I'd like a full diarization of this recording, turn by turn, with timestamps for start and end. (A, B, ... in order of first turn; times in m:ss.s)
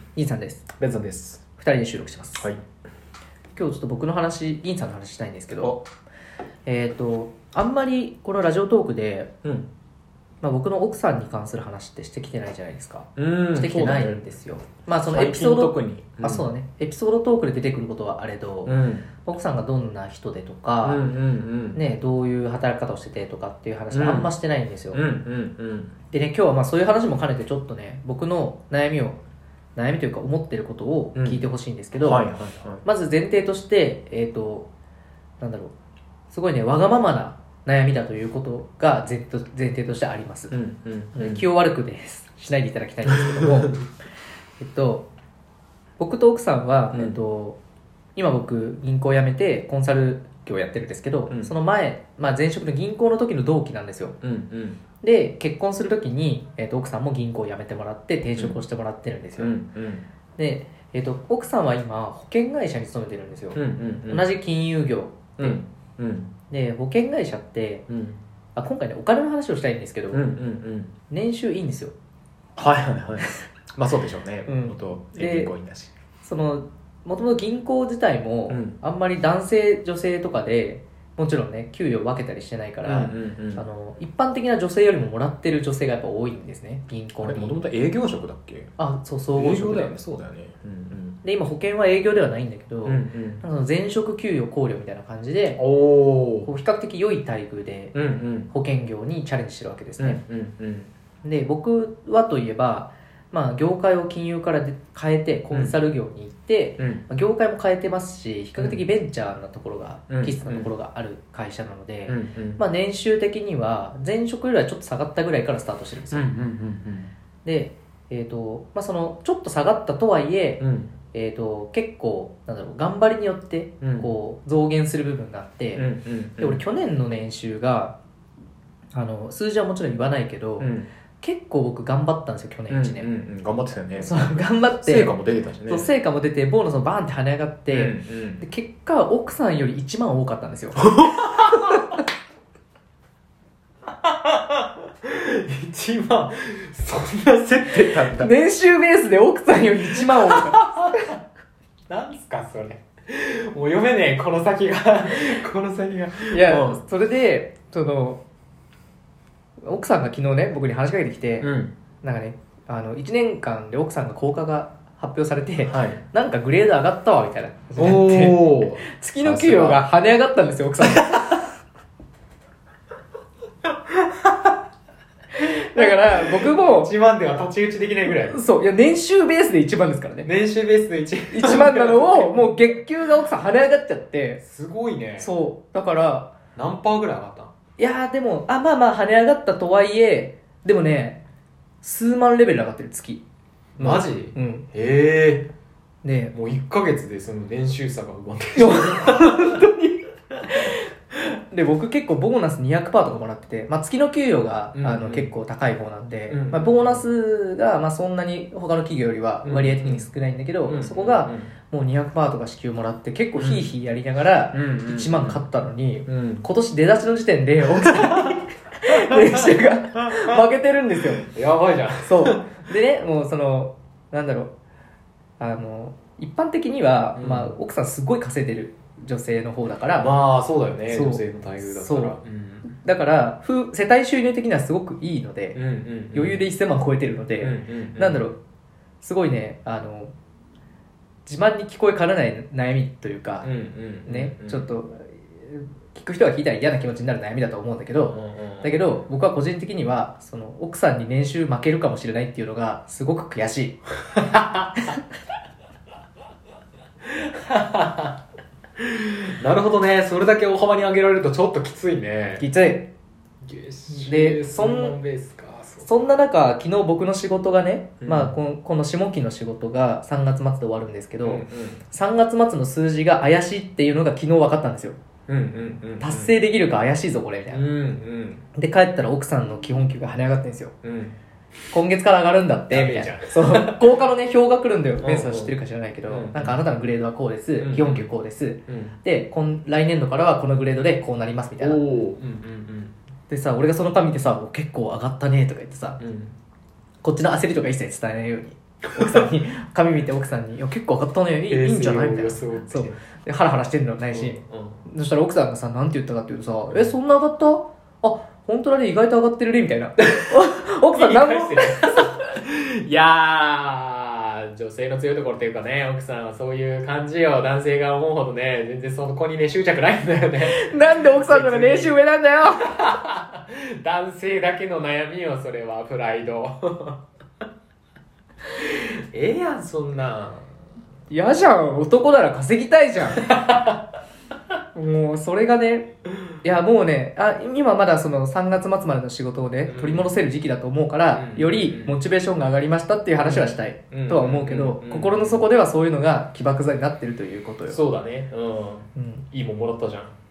0:00.2-0:00.7 A
0:00.8-0:01.4 B
0:01.6-0:02.5 A
0:03.6-0:05.8 A
0:05.6-0:05.8 B
0:06.7-0:09.3 A
0:10.4-0:21.0 A
0:13.2-0:14.3 B
0:15.1-0:16.5 B
0:18.6-0:19.1 B
0:20.8-0:21.8 B
0:21.7-0:25.0 A
0:23.9-0:24.3 B
0:24.9-0:25.9 B
0:26.1-0:29.2 A
0:29.8-0:32.3 A
0:31.2-0:31.4 B
0:32.0-0:32.8 B
0:32.8-0:34.7 A
0:35.4-0:35.7 A
0:36.3-0:40.5 A
0:40.5-0:41.4 B
0:41.1-0:43.8 A
0:43.1-0:43.8 B
0:44.6-0:45.1 A
0:46.0-0:47.6 A
0:48.2-0:54.2 A
0:51.3-0:51.5 B
0:54.2-0:54.8 B
0:55.0-0:59.5 A
0:59.4-1:00.0 B
1:00.4-1:05.6 A
1:03.5-1:04.3 B
1:05.4-1:06.3 B
1:06.5-1:07.8 A
1:07.9-1:08.2 B
1:08.6-1:10.2 A
1:10.1-1:10.9 B
1:11.1-1:11.9 A
1:12.6-1:15.9 B
1:14.5-1:15.5 A
1:16.2-1:27.6 A
1:18.5-1:18.8 B
1:22.8-1:23.6 B
1:27.2-1:28.7 B
1:28.8-1:30.0 A
1:29.4-1:31.2 B
1:31.2-1:35.6 A
1:32.8-1:33.4 B
1:35.6-1:36.5 B
1:36.5-1:38.0 A
1:37.9-1:38.5 B
1:38.5-1:40.2 A
1:40.0-1:40.9 B
1:41.2-1:56.3 A
1:48.6-1:48.8 B
1:50.1-1:50.7 B
1:52.1-1:52.6 B
1:56.1-1:57.1 B
1:57.4-2:00.6 A
2:00.6-2:00.9 B
2:01.1-2:05.9 A
2:03.8-2:04.1 B
2:05.7-2:06.6 B
2:06.4-2:08.0 A
2:08.9-2:13.1 A
2:10.6-2:10.9 B
2:12.7-2:15.9 B
2:14.0-2:15.1 A
2:15.7-2:20.9 A
2:17.7-2:18.4 B
2:20.8-2:21.8 B
2:24.0-2:28.3 B
2:28.1-2:31.1 A
2:30.0-2:31.0 B
2:31.9-2:36.8 B
2:36.3-2:38.2 A
2:39.6-2:41.5 A
2:41.4-2:41.7 B
2:42.0-2:51.4 A
2:45.7-2:46.0 B
2:47.8-2:49.8 B
2:50.8-2:51.4 B
2:53.9-2:54.6 B
2:55.4-2:56.9 A
2:55.4-2:58.4 B
2:58.3-3:00.3 A
3:00.2-3:02.5 B
3:01.3-3:04.4 A
3:04.4-3:05.3 B
3:05.2-3:06.3 A
3:06.6-3:07.5 B
3:07.8-3:11.2 A
3:11.8-3:13.2 A
3:13.8-3:15.5 B
3:13.8-3:14.6 A
3:16.0-3:16.3 A
3:16.3-3:19.6 B
3:18.6-3:20.0 A
3:21.5-3:41.3 A
3:24.7-3:25.3 B
3:26.3-3:27.0 B
3:29.4-3:30.1 B
3:30.7-3:31.5 B
3:33.4-3:33.6 B
3:34.5-3:35.4 B
3:36.1-3:36.5 B
3:38.0-3:38.4 B
3:38.9-3:40.2 B
3:41.2-3:42.6 B
3:42.1-3:44.5 A
3:45.4-3:50.1 A
3:47.2-3:47.5 B
3:50.0-3:52.7 B
3:50.9-3:55.6 A
3:55.5-3:56.4 B
3:56.1-3:58.4 A
3:57.4-3:58.2 B
3:59.0-4:00.1 A
4:01.3-4:03.5 A
4:03.4-4:04.6 B
4:04.1-4:13.8 A
4:08.1-4:08.8 B
4:14.1-4:14.8 B
4:17.1-4:18.2 B
4:18.8-4:22.4 B
4:22.4-4:22.9 A
4:23.4-4:25.9 B
4:23.9-4:25.0 A
4:25.8-4:35.0 A
4:28.0-4:28.4 B
4:31.2-4:31.8 B
4:35.3-4:36.3 B
4:36.0-4:37.6 A
4:37.5-4:38.4 B
4:38.6-4:40.7 A
4:40.8-4:41.2 B
4:41.7-4:51.8 A
4:42.7-4:43.9 B
4:45.0-4:45.6 B
4:46.1-4:46.6 B
4:47.6-4:48.1 B
4:48.7-4:49.0 B
4:51.6-4:52.9 B
4:53.3-4:56.0 A
4:56.0-4:56.4 B
4:57.0-5:12.1 A
4:59.0-4:59.3 B
5:01.5-5:03.0 B
5:04.1-5:04.9 B
5:10.0-5:22.0 B
5:20.5-5:22.8 A
5:22.6-5:27.0 B
5:28.6-5:30.5 B
5:31.1-5:33.2 A
5:33.2-5:33.8 B
5:34.7-5:35.9 A
5:36.4-5:47.8 A
5:39.7-5:40.1 B
5:41.1-5:42.0 B
5:43.2-5:45.4 B
5:47.7-5:50.1 B
5:49.0-5:49.3 A